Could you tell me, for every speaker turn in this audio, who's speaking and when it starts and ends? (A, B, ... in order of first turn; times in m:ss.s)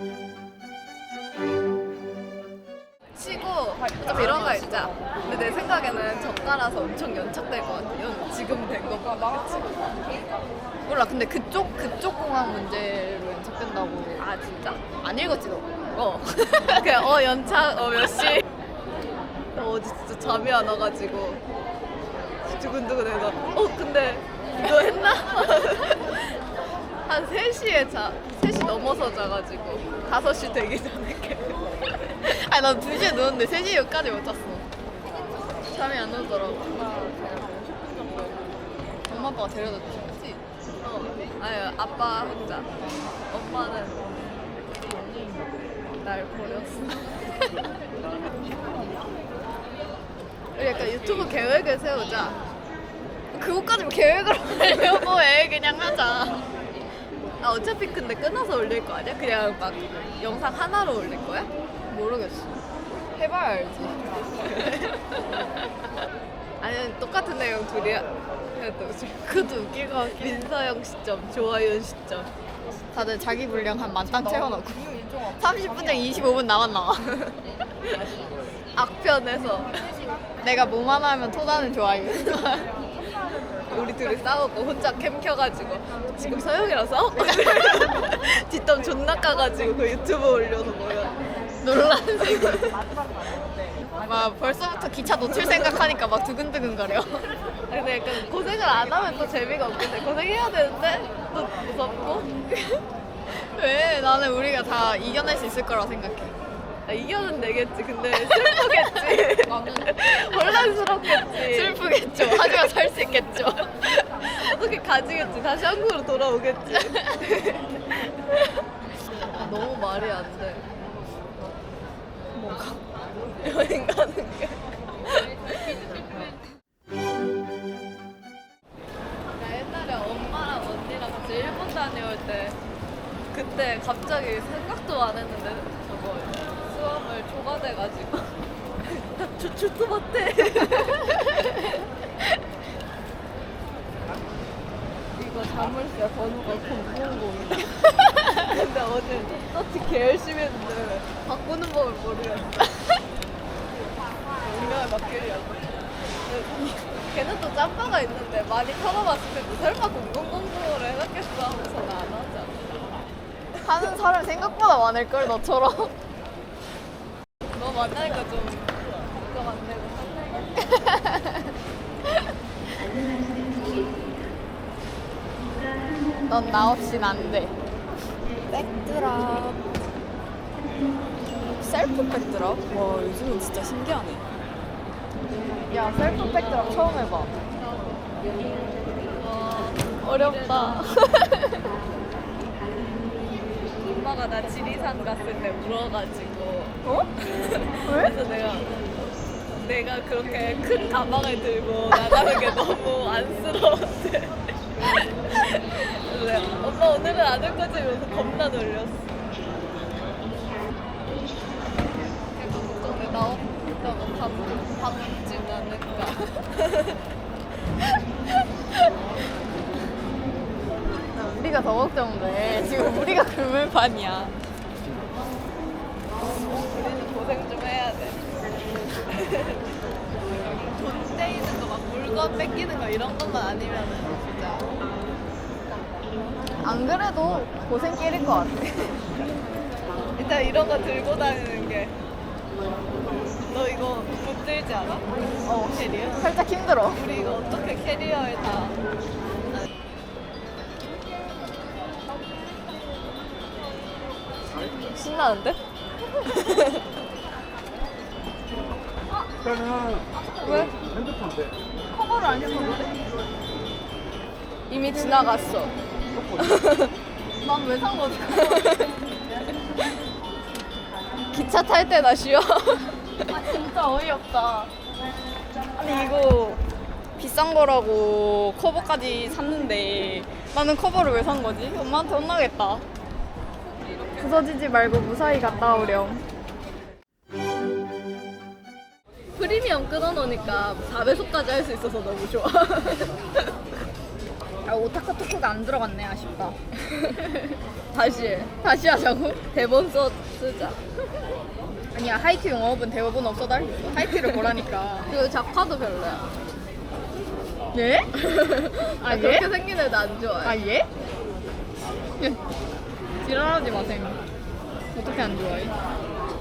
0:03.1-0:09.7 A
0:03.9-0:05.1 B
0:10.9-0:14.2 B
0:14.2-0:14.8 A
0:15.0-0:17.0 B
0:16.6-0:18.4 A
0:19.5-0:21.4 A
0:22.4-0:26.4 A
0:27.0-0:31.6 A
0:32.2-0:34.6 B
0:35.7-0:36.8 B
0:36.9-0:38.4 A
0:39.1-0:40.4 B
0:40.8-0:42.7 A
0:43.3-0:44.1 A
0:44.9-0:45.4 B
0:46.0-0:47.6 A
0:50.6-0:52.4 A
0:53.3-0:56.4 B
0:57.4-1:01.5 A
1:01.9-1:02.6 B
1:03.1-1:04.3 B
1:04.4-1:05.7 A
1:06.6-1:09.5 A
1:09.2-1:10.5 B
1:10.0-1:12.3 A
1:12.9-1:17.1 B
1:18.7-1:20.0 A
1:20.4-1:22.7 B
1:23.7-1:31.2 A
1:31.6-1:32.8 B
1:33.9-1:37.3 B
1:37.7-1:42.5 A
1:43.3-1:46.3 B
1:46.9-1:52.7 A
1:50.5-1:54.0 B
1:54.1-1:58.6 A
1:57.0-1:57.2 B
1:59.2-2:00.6 A
2:02.3-2:02.8 B
2:03.3-2:04.7 A
2:05.2-2:06.1 A
2:09.3-2:12.6 A
2:13.3-2:21.8 A
2:25.2-2:27.8 A
2:28.4-2:33.0 A
2:34.4-2:42.6 A
2:43.6-2:45.9 B
2:47.6-2:50.7 A
2:56.3-2:57.6 B
2:58.5-2:59.7 B
3:01.6-3:04.3 B
3:05.7-3:07.3 B
3:09.1-3:10.9 A
3:10.0-3:11.5 B
3:13.9-3:18.7 A
3:16.8-3:17.1 B
3:17.8-3:18.2 B
3:19.6-3:29.1 A
3:32.3-3:37.0 A
3:41.2-3:44.4 B
3:46.6-3:48.2 A
3:49.1-3:49.6 A
3:50.5-3:54.7 A
3:56.6-3:59.0 B
4:00.2-4:02.0 A
4:03.5-4:06.2 A
4:05.4-4:07.0 B
4:06.9-4:08.8 A
4:14.8-4:15.6 A
4:16.2-4:16.8 A
4:20.2-4:20.8 B
4:21.9-4:23.0 B
4:24.7-4:25.8 A
4:26.4-4:26.9 A
4:27.4-4:28.9 B
4:28.5-4:28.9 A
4:31.3-4:33.2 A
4:33.3-4:34.7 B
4:35.8-4:36.6 B
4:37.2-4:42.8 B
4:44.2-4:46.2 B
4:49.4-4:53.5 A
4:54.6-4:57.3 B
4:57.9-4:58.5 A
4:58.6-4:59.4 B
4:59.5-5:00.8 A
5:01.9-5:05.1 B
5:04.0-5:06.3 A
5:07.7-5:09.5 B
5:08.6-5:10.6 A
5:10.4-5:10.9 B
5:13.2-5:14.2 B
5:14.9-5:15.7 B